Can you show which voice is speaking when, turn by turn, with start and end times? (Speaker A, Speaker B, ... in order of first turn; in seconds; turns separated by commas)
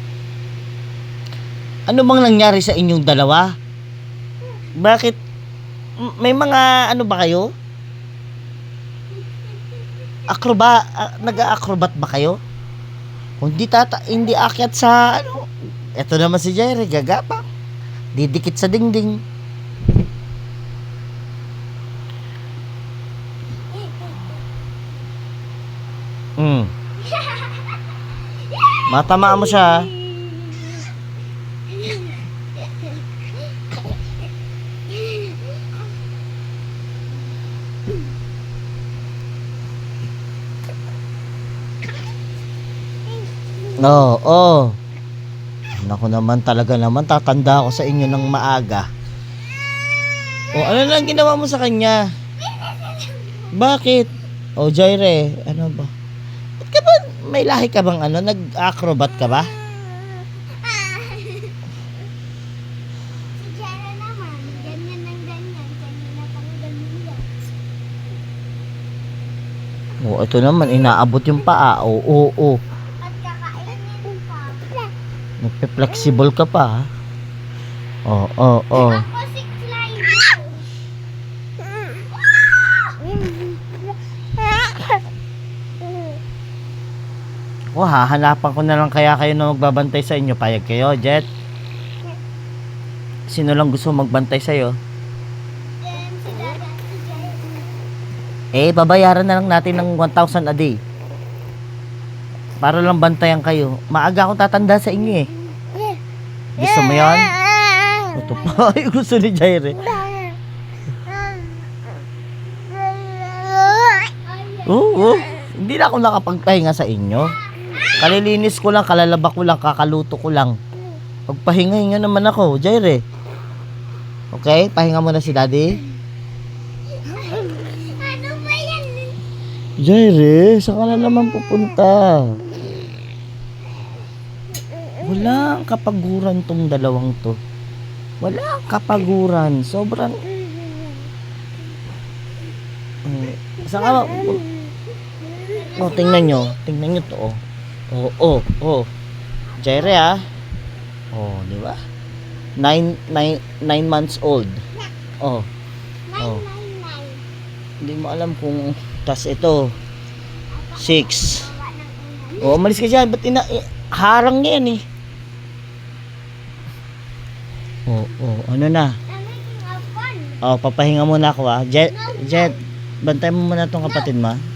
Speaker A: 1.9-3.5, Speaker A: 4.8-5.2, Speaker A: 6.0-7.5, Speaker A: 10.3-12.4, Speaker A: 13.4-15.5, Speaker A: 16.0-17.4, Speaker A: 18.1-19.2, Speaker B: 23.8-24.2, Speaker A: 26.4-26.7, Speaker B: 27.0-27.8, Speaker B: 28.5-30.9, Speaker A: 28.9-29.9, Speaker B: 31.7-32.2, Speaker B: 32.7-33.0, Speaker B: 34.9-35.6, Speaker B: 43.1-43.9, Speaker A: 43.8-44.8, Speaker A: 45.8-48.9, Speaker A: 50.5-52.0, Speaker B: 52.5-53.5, Speaker A: 53.5-55.9, Speaker A: 56.6-59.5, Speaker B: 60.5-61.6, Speaker B: 63.4-67.5, Speaker A: 70.0-72.6, Speaker B: 73.0-74.9, Speaker A: 75.4-76.9, Speaker A: 78.1-79.0, Speaker B: 78.7-80.7, Speaker B: 82.0-83.3, Speaker A: 87.8-91.3, Speaker A: 93.3-94.8, Speaker B: 95.8-97.7, Speaker A: 98.5-100.8, Speaker A: 102.6-105.3, Speaker A: 106.6-107.3, Speaker A: 108.1-109.9, Speaker B: 114.1-115.4, Speaker A: 114.7-117.4, Speaker A: 118.0-120.6, Speaker A: 121.3-123.0, Speaker A: 124.3-125.8, Speaker B: 127.0-129.2, Speaker A: 129.8-132.4, Speaker A: 135.0-137.4, Speaker A: 138.2-140.2, Speaker A: 143.1-144.4, Speaker B: 145.5-146.6, Speaker A: 145.8-147.4, Speaker A: 147.9-148.9, Speaker A: 149.6-150.2, Speaker A: 151.1-151.8, Speaker A: 152.6-154.6, Speaker A: 155.2-155.5, Speaker B: 156.1-157.2, Speaker A: 156.2-156.4, Speaker A: 157.8-159.7, Speaker B: 160.5-162.6, Speaker A: 160.8-161.4, Speaker A: 162.4-164.8, Speaker A: 167.9-169.0, Speaker B: 169.1-170.4, Speaker A: 170.4-174.4, Speaker B: 171.9-172.6